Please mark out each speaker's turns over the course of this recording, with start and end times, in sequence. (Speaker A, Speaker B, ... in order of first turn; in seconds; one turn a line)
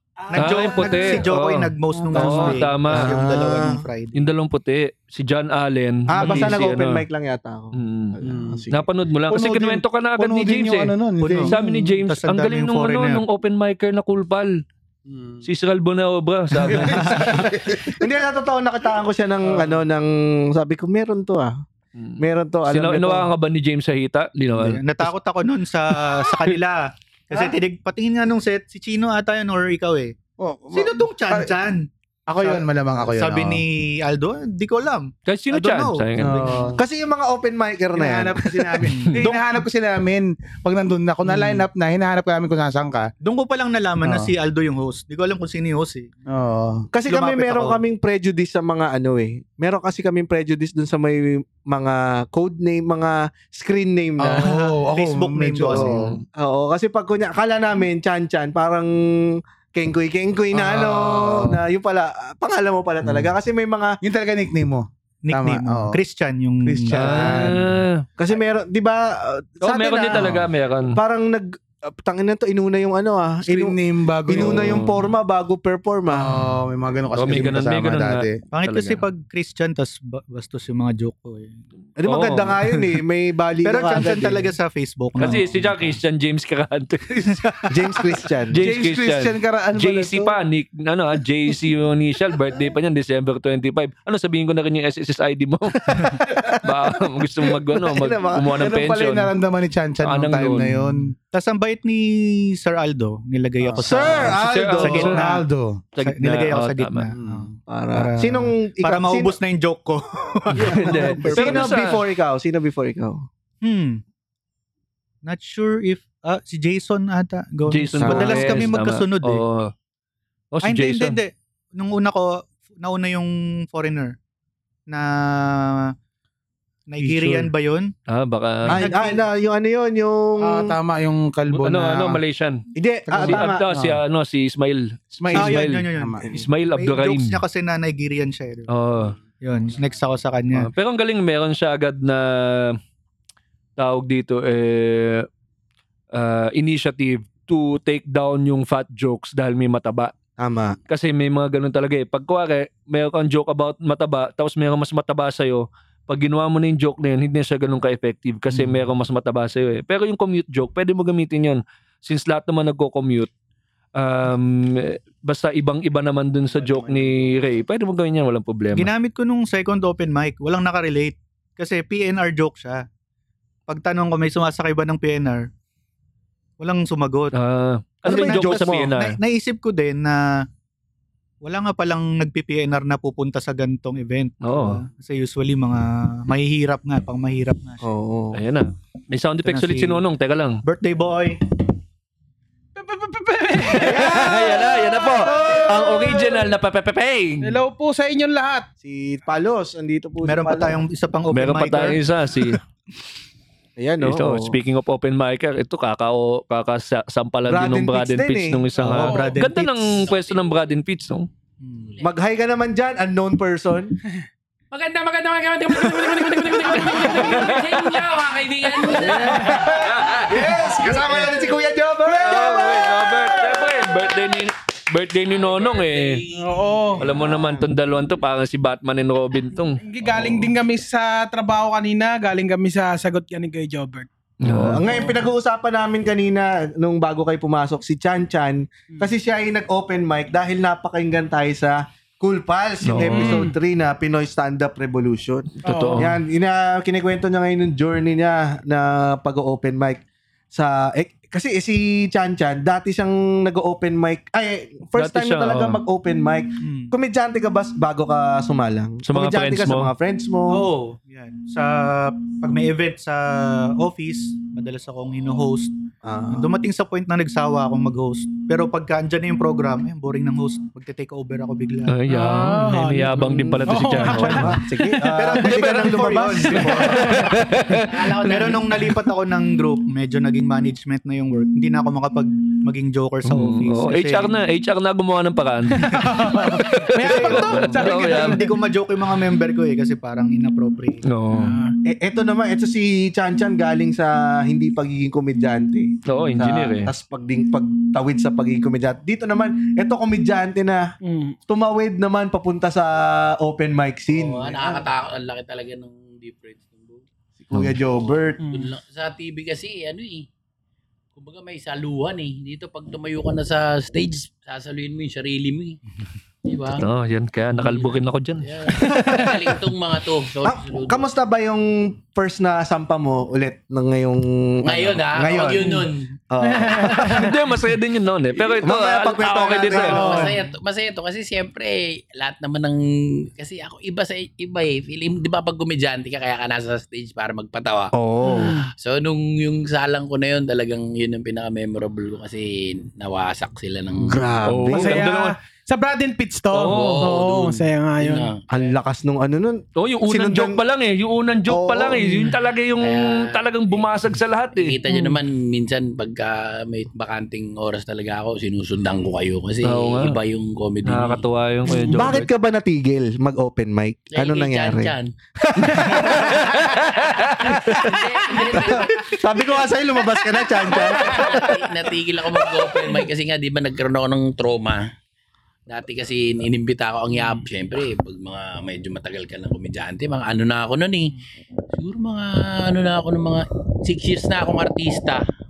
Speaker A: 0.2-1.2
Speaker B: 0.3-4.2
Speaker C: 0.3-3.1
Speaker D: 2.3-3.8
Speaker C: 4.1-7.0
Speaker D: 6.1-8.8
Speaker B: 6.2-6.5
Speaker C: 7.7-8.2
Speaker A: 8.2-8.6
Speaker C: 8.7-14.6
Speaker A: 9.3-11.7
Speaker B: 11.2-13.2
Speaker A: 15.1-15.4
Speaker C: 15.4-17.4
Speaker A: 16.6-18.0
Speaker B: 16.8-17.2
Speaker D: 17.8-21.6
Speaker A: 19.5-19.8
Speaker C: 21.9-25.1
Speaker D: 22.2-23.3
Speaker B: 24.6-30.1
Speaker A: 30.4-31.5
Speaker B: 30.7-36.7
Speaker A: 32.3-33.6
Speaker C: 35.2-36.6
Speaker A: 36.2-36.8
Speaker D: 36.8-38.8
Speaker A: 37.9-43.1
Speaker B: 38.9-39.4
Speaker B: 43.2-46.1
Speaker A: 44.0-44.3
Speaker A: 46.3-46.9
Speaker D: 46.9-54.5
Speaker B: 47.1-47.8
Speaker A: 54.2-56.2
Speaker B: 54.4-56.0
Speaker C: 55.8-56.2
Speaker D: 56.4-64.0
Speaker A: 60.5-61.6
Speaker A: 64.0-66.0
Speaker B: 65.2-67.3
Speaker A: 66.6-67.7
Speaker C: 66.9-68.0
Speaker D: 68.2-76.4
Speaker C: 69.6-71.0
Speaker A: 73.5-74.9
Speaker C: 74.3-75.0
Speaker A: 76.1-78.4
Speaker C: 77.1-79.0
Speaker B: 78.5-81.6
Speaker D: 82.0-84.5
Speaker C: 82.0-82.8
Speaker B: 83.6-85.5
Speaker C: 85.2-87.4
Speaker D: 87.7-88.6
Speaker C: 88.5-99.3
Speaker A: 88.6-90.3
Speaker D: 97.8-98.5
Speaker A: 98.5-101.1
Speaker C: 100.0-100.8
Speaker B: 101.3-105.4
Speaker A: 103.7-105.8
Speaker D: 103.8-104.2
Speaker C: 104.0-105.3
Speaker C: 105.9-107.1
Speaker B: 106.0-111.7
Speaker A: 107.2-107.5
Speaker D: 107.7-109.3
Speaker C: 110.6-112.0
Speaker D: 110.6-113.3
Speaker B: 113.6-114.0
Speaker B: 115.2-119.4
Speaker C: 117.7-119.7
Speaker D: 118.0-118.7
Speaker C: 120.5-121.2
Speaker B: 120.6-124.2
Speaker B: 124.9-125.9
Speaker B: 126.9-127.9
Speaker A: 127.0-127.5
Speaker C: 128.1-128.8
Speaker D: 128.7-130.8
Speaker B: 128.7-129.2
Speaker A: 130.4-132.2
Speaker C: 131.5-132.6
Speaker D: 132.7-133.6
Speaker A: 133.1-134.0
Speaker C: 133.2-137.4
Speaker A: 135.2-136.3
Speaker B: 135.3-138.7
Speaker C: 138.7-139.1
Speaker B: 139.4-140.7
Speaker C: 140.5-142.8
Speaker C: 143.8-145.3
Speaker C: 146.1-150.1
Speaker D: 150.4-150.8
Speaker C: 150.9-163.3
Speaker C: 163.9-168.9
Speaker A: 166.7-167.2
Speaker B: 168.7-172.8
Speaker B: 173.7-175.5
Speaker B: 176.6-177.3
Speaker C: 177.3-179.2
Speaker D: 178.0-178.9
Speaker B: 178.1-180.4
Speaker B: 181.4-187.8
Speaker C: 184.4-184.8
Speaker D: 187.8-188.4
Speaker C: 188.3-190.6
Speaker B: 189.5-189.9
Speaker B: 190.6-191.4
Speaker E: 192.8-196.2
Speaker C: 193.6-197.6
Speaker D: 193.8-196.0
Speaker E: 197.4-198.7
Speaker D: 198.8-200.8
Speaker B: 200.2-202.0
Speaker C: 201.3-202.6
Speaker D: 203.8-204.6
Speaker C: 204.0-211.3
Speaker D: 207.5-209.0
Speaker B: 208.8-209.9
Speaker F: 209.9-210.7
Speaker F: 211.7-212.1
Speaker D: 212.0-213.9
Speaker F: 214.7-219.7
Speaker C: 216.7-217.9
Speaker E: 216.8-217.3
Speaker D: 218.9-223.4
Speaker C: 219.8-220.3
Speaker C: 222.2-226.2
Speaker F: 225.3-226.9
Speaker E: 226.3-227.1
Speaker C: 227.0-230.3
Speaker E: 229.8-234.1
Speaker C: 234.4-234.8
Speaker D: 234.4-260.6
Speaker E: 234.8-235.1
Speaker C: 242.8-243.5
Speaker E: 243.1-243.6
Speaker C: 245.6-246.1
Speaker E: 245.6-246.0
Speaker C: 254.9-255.8
Speaker B: 256.6-256.9
Speaker C: 259.1-259.9
Speaker B: 260.5-265.7
Speaker D: 266.0-266.5
Speaker B: 266.3-271.9
Speaker C: 271.9-274.6
Speaker E: 272.1-275.0
Speaker D: 273.5-277.1
Speaker B: 275.1-277.0
Speaker C: 276.7-278.6
Speaker F: 277.8-278.7
Speaker B: 278.2-284.3
Speaker C: 283.2-288.5
Speaker E: 285.9-288.6
Speaker B: 287.0-291.0
Speaker C: 291.1-291.6
Speaker E: 291.3-291.7
Speaker D: 291.8-300.9
Speaker C: 296.1-296.9
Speaker E: 301.0-301.4
Speaker D: 301.5-304.8
Speaker F: 304.1-307.0
Speaker D: 307.4-308.4
Speaker E: 308.4-308.7
Speaker F: 308.5-310.2
Speaker F: 311.1-315.8
Speaker F: 316.4-316.8
Speaker C: 316.7-318.8
Speaker F: 317.5-321.1
Speaker D: 318.9-319.3
Speaker D: 320.4-325.8
Speaker F: 324.6-326.1
Speaker D: 326.3-327.3
Speaker E: 326.6-327.1
Speaker C: 327.0-330.1
Speaker D: 328.6-330.3
Speaker F: 329.7-337.9
Speaker E: 330.0-330.3
Speaker D: 337.9-338.5
Speaker E: 338.2-338.7
Speaker F: 338.8-344.2
Speaker D: 344.0-345.0
Speaker C: 344.4-345.3
Speaker E: 344.7-348.3
Speaker C: 346.5-347.1
Speaker F: 346.7-348.7
Speaker D: 348.5-350.6
Speaker C: 349.8-354.8
Speaker D: 351.5-352.1
Speaker F: 352.8-353.9
Speaker F: 354.5-361.2
Speaker E: 354.9-355.2
Speaker C: 359.6-360.2
Speaker C: 360.8-362.3
Speaker E: 361.7-362.0
Speaker D: 361.9-366.7
Speaker F: 364.1-365.1
Speaker C: 366.2-367.8
Speaker F: 367.4-369.1
Speaker D: 367.5-367.9
Speaker D: 368.5-371.5
Speaker F: 370.7-374.8
Speaker F: 375.7-381.1
Speaker F: 381.8-385.2